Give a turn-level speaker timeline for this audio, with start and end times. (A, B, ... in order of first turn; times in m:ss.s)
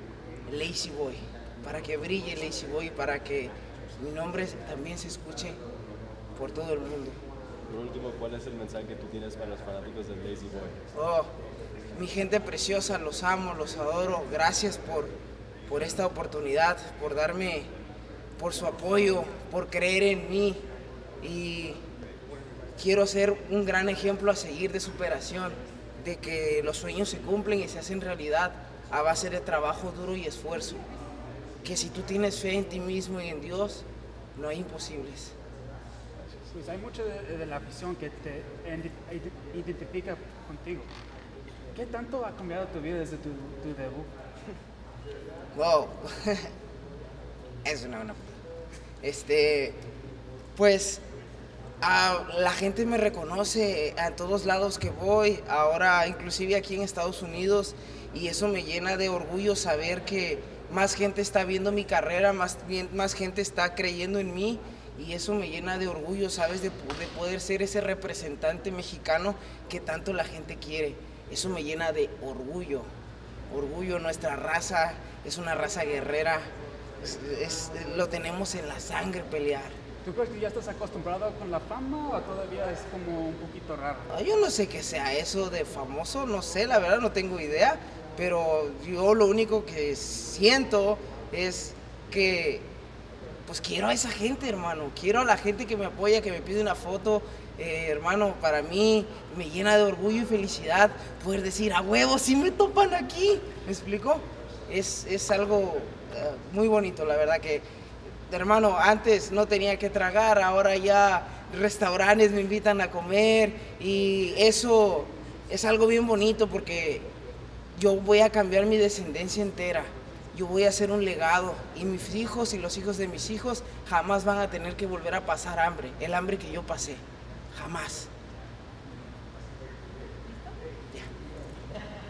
0:00.5-0:05.6 A
0:06.4-0:07.2 A
0:07.7-0:10.8 B
0:10.9-0:11.3 A
0:11.9-0:15.1 A
0:15.7-0:17.7 A
0:18.4-0:20.6 A
0:21.2-0:21.8 A
0:22.8-0:30.8 A
0:31.6-0:33.8 A
0:34.4-0:35.3 A
0:36.5-0:40.9 C
0:41.8-0:44.1 C
0:45.5-0:46.5 A
0:47.6-0:48.4 A
0:49.0-0:49.8 A
0:50.6-0:51.0 A
0:51.8-1:12.9 A
1:13.5-1:16.5 A
1:17.0-1:19.8 A
1:20.0-1:24.1 C
1:24.1-1:32.7 A
1:33.5-1:47.6 A
1:48.3-1:57.1 A
1:57.8-2:07.0 A
2:07.5-2:08.1 A